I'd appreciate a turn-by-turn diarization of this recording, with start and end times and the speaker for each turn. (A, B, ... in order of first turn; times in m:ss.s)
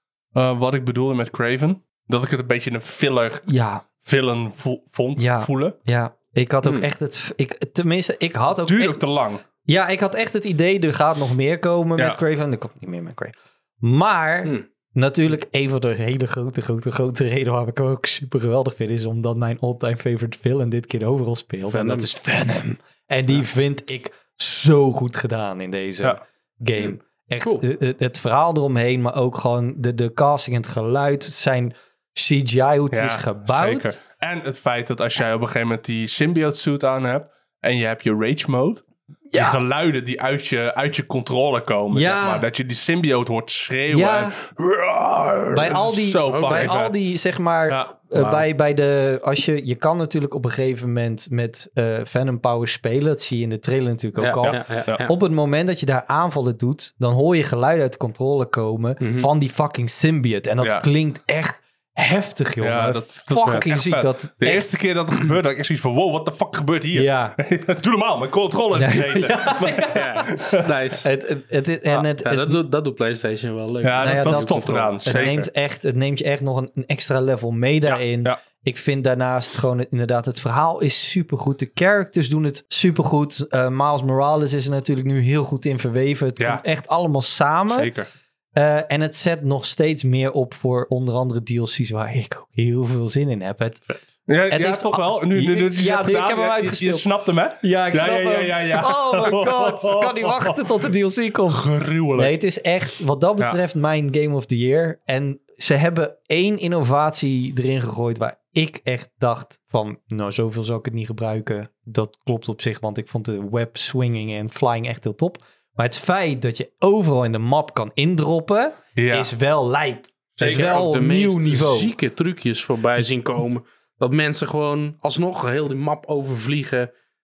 0:00.3-0:03.4 A
0:03.5-0:03.8 B
0:04.0-0:05.8 A
0:05.2-0:09.0 B
0:06.6-0:06.9 C
0:08.6-0:09.4 A
0:09.6-0:34.0 B
0:21.7-0:22.1 C
0:26.8-0:27.6 C
0:32.9-0:47.0 A
0:39.3-0:39.6 B
0:41.9-0:42.4 B
0:43.9-0:44.4 B
0:45.5-1:04.7 B
0:46.3-0:46.8 C
0:47.7-0:47.9 A
0:48.1-0:48.4 C
0:54.2-0:55.1 C
0:54.4-0:55.0 A
0:59.0-0:59.3 C
1:02.6-1:10.7 A
1:06.9-1:07.4 B
1:08.7-1:10.1 B
1:09.9-1:11.1 C
1:11.0-1:12.6 B
1:11.9-1:15.2 C
1:13.8-1:15.5 A
1:14.0-1:27.9 B
1:17.8-1:18.4 A
1:26.4-1:26.6 A
1:27.7-1:28.1 A
1:28.5-1:37.1 B
1:34.3-1:40.7 A
1:37.6-2:01.9 B
1:41.5-1:42.4 A
1:59.0-1:59.3 A
2:00.4-2:00.9 A
2:00.4-2:06.9 C